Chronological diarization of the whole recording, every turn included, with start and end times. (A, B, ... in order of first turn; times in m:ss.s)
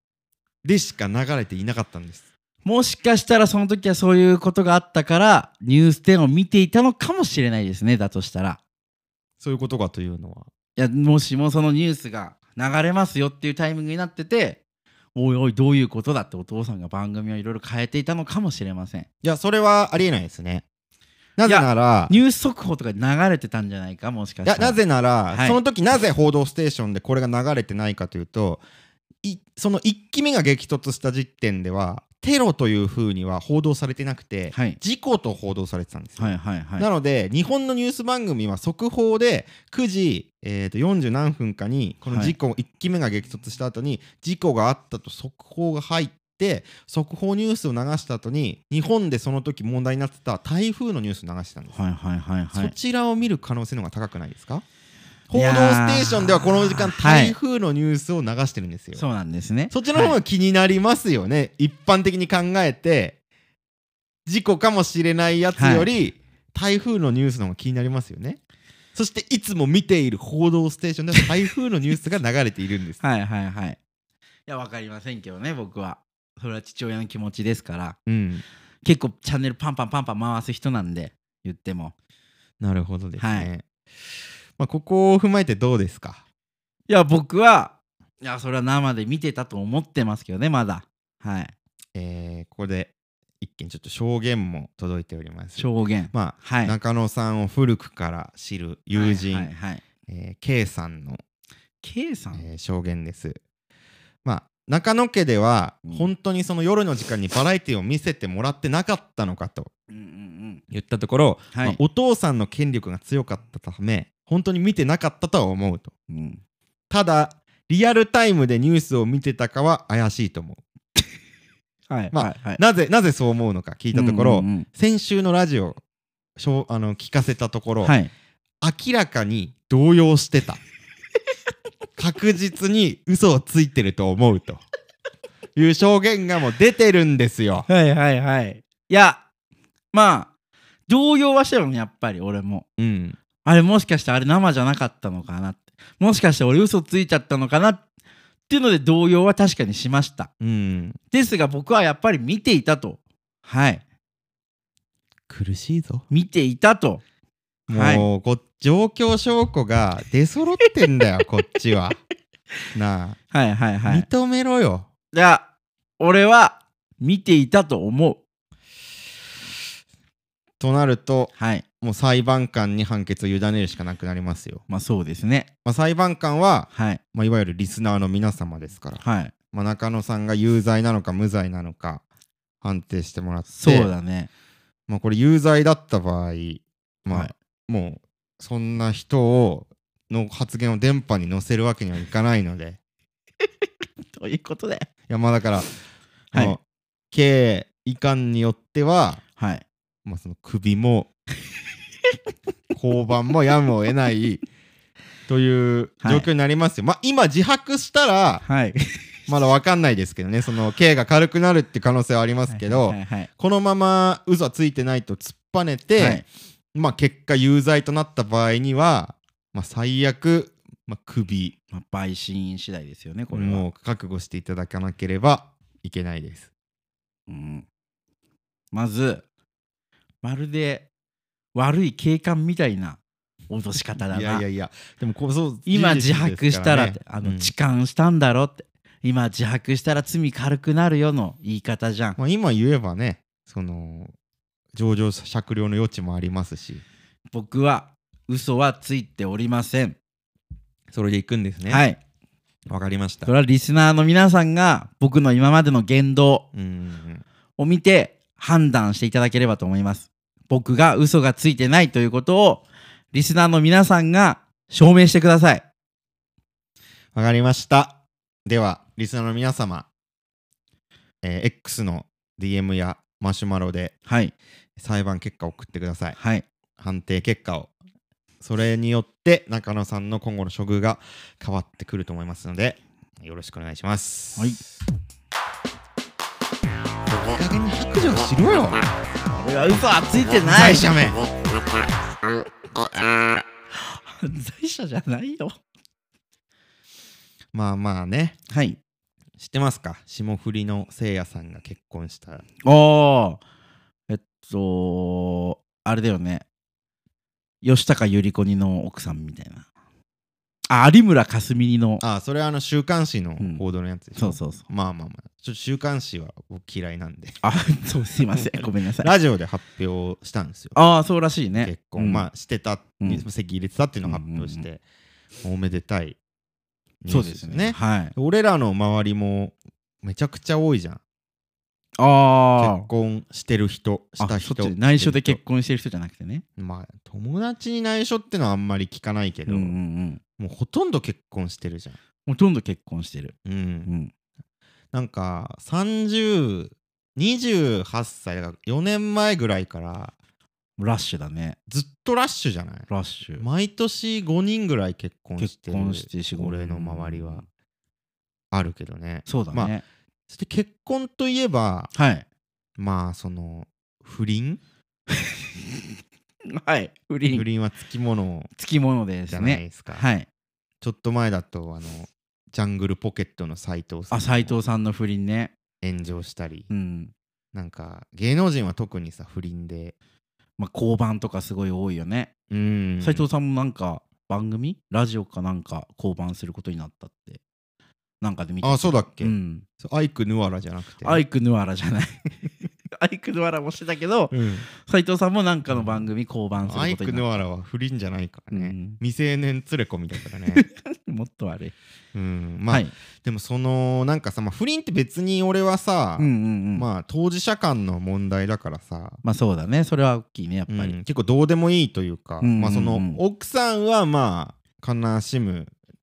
0:00.6-0:02.2 A
0:02.6-0:08.6 B
0:09.4-0:10.5 A
0:10.8-0:14.6 B
0:15.2-0:19.1 B
0:19.2-0:20.6 A
0:21.4-0:22.1 A
0:21.5-0:24.8 B
0:24.4-0:28.6 A
0:25.3-0:25.6 B
0:29.2-0:51.8 A
0:34.5-0:34.8 B
0:36.2-0:36.9 B
0:42.1-0:42.4 B
0:51.7-0:52.7 B
0:52.5-0:54.6 A
0:55.3-0:59.0 A
0:55.3-0:57.4 B
0:59.0-1:00.2 B
0:59.7-1:03.2 A
1:04.3-1:08.4 A
1:05.6-1:05.9 B
1:09.0-1:13.0 A
1:13.0-1:13.8 B
1:14.5-1:18.0 B
1:18.1-1:18.4 A
1:18.8-1:21.9 B
1:22.6-1:23.6 A
1:23.2-1:23.5 B
1:24.6-1:26.2 A
1:26.9-1:31.5 B
1:32.0-1:39.5 A
1:35.6-1:36.7 B
1:38.9-1:39.8 B
1:40.1-1:41.2 A
1:41.8-1:42.5 B
1:42.3-1:43.4 A
1:44.2-1:49.7 A
1:49.9-1:50.6 B
1:50.7-1:55.9 A
1:51.5-1:51.8 B
1:56.1-1:56.4 B
1:56.9-2:00.6 A
2:01.9-2:02.6 B
2:02.1-2:05.8 A
2:03.9-2:04.7 B
2:06.4-2:08.0 A
2:07.8-2:08.1 B
2:08.6-2:10.6 A
2:12.0-2:14.6 A
2:15.6-2:17.7 A
2:17.7-2:19.2 B
2:19.9-2:20.3 B
2:20.9-2:22.6 B
2:22.8-2:23.2 A
2:23.4-2:27.8 B
2:28.5-2:30.3 B
2:30.4-2:31.0 A
2:31.1-2:33.8 B
2:35.3-2:36.0 A
2:36.1-2:37.0 B
2:37.7-2:42.0 A
2:37.7-2:38.1 B
2:42.7-2:43.2 A
2:43.3-2:44.1 B
2:43.9-2:44.9 A
2:45.1-2:45.4 B
2:46.0-2:48.2 B
2:50.6-2:54.6 A
2:51.4-2:51.6 B
2:54.7-2:55.5 B
2:55.6-3:02.0 A
2:56.7-2:57.0 B
2:59.0-2:59.3 B
3:02.6-3:03.9 A
3:03.5-3:04.3 B
3:04.9-3:12.8 A
3:14.0-3:14.9 B
3:15.1-3:15.7 A
3:16.3-3:19.2 A
3:19.4-3:19.6 B
3:20.0-3:21.1 A
3:22.7-3:24.4 A
3:25.3-3:28.4 A
3:26.0-3:26.3 B
3:28.4-3:29.0 B
3:29.3-3:41.6 A
3:32.5-3:33.3 B
3:36.0-3:36.2 B
3:41.7-3:43.6 B
3:43.3-3:46.5 A
3:47.3-3:47.6 B
3:48.7-3:49.2 B
3:50.2-3:50.9 B
3:51.6-3:53.0 B
3:53.5-3:54.4 B
3:54.0-3:57.5 A
3:55.7-4:02.2 B
4:02.2-4:04.1 A
4:04.7-4:06.8 A
4:07.3-4:10.0 B
4:10.9-4:11.8 A
4:11.7-4:12.0 B
4:12.7-4:13.3 A
4:13.3-4:16.5 B
4:16.5-4:17.2 A
4:17.6-4:25.6 B
4:27.2-4:29.9 A
4:31.2-4:34.0 A
4:34.1-4:34.3 B
4:34.8-4:36.2 A
4:36.2-4:36.4 B
4:36.8-4:37.7 A
4:38.4-4:44.6 A
4:47.2-4:48.8 A
4:49.3-4:50.9 B
4:50.4-4:51.2 A
4:53.7-4:55.6 B
4:57.5-4:58.4 A
4:58.5-4:58.8 B
4:59.4-5:02.4 A
5:02.6-5:03.4 B
5:04.1-5:06.4 B
5:07.6-5:09.6 B
5:10.7-5:12.0 B
5:12.0-5:17.4 A
5:14.2-5:14.6 B
5:17.4-5:19.1 B
5:19.0-5:20.8 A
5:20.8-5:22.3 B
5:21.6-5:24.8 A
5:24.0-5:24.6 B
5:25.4-5:26.2 A
5:27.0-5:31.0 A
5:27.1-5:28.1 B
5:32.0-5:32.9 B
5:32.6-5:35.4 A
5:34.2-5:36.4 B
5:36.6-5:39.8 A
5:39.5-5:40.2 B
5:40.4-5:42.0 A
5:42.3-5:43.4 B
5:43.4-5:43.9 A
5:43.9-5:44.1 B
5:44.9-5:50.1 A
5:50.8-5:51.6 B
5:51.7-5:57.4 A
5:52.9-5:53.4 B
5:55.4-5:57.4 B
5:58.5-5:59.7 A
5:59.3-5:59.8 B
6:00.3-6:01.9 A
6:01.9-6:02.2 B
6:02.8-6:04.6 A
6:05.1-6:07.4 B
6:07.3-6:08.5 A
6:08.6-6:10.3 B
6:09.3-6:10.0 A
6:10.8-6:14.6 A
6:14.1-6:15.5 B
6:15.8-6:16.7 A
6:16.7-6:17.1 B
6:17.5-6:19.9 A
6:20.6-6:22.3 B
6:22.5-6:23.3 A
6:23.0-6:27.4 B
6:28.2-6:29.6 B
6:28.6-6:31.2 A
6:31.0-6:32.3 B
6:32.9-6:37.2 B
6:34.3-6:34.7 A
6:35.7-6:36.1 A
6:36.6-6:40.6 A
6:38.5-6:39.0 B
6:40.5-6:41.7 B
6:42.1-6:49.2 A
6:46.2-6:46.9 B
6:49.2-6:51.0 B
6:50.7-6:55.7 A
6:52.4-6:53.2 B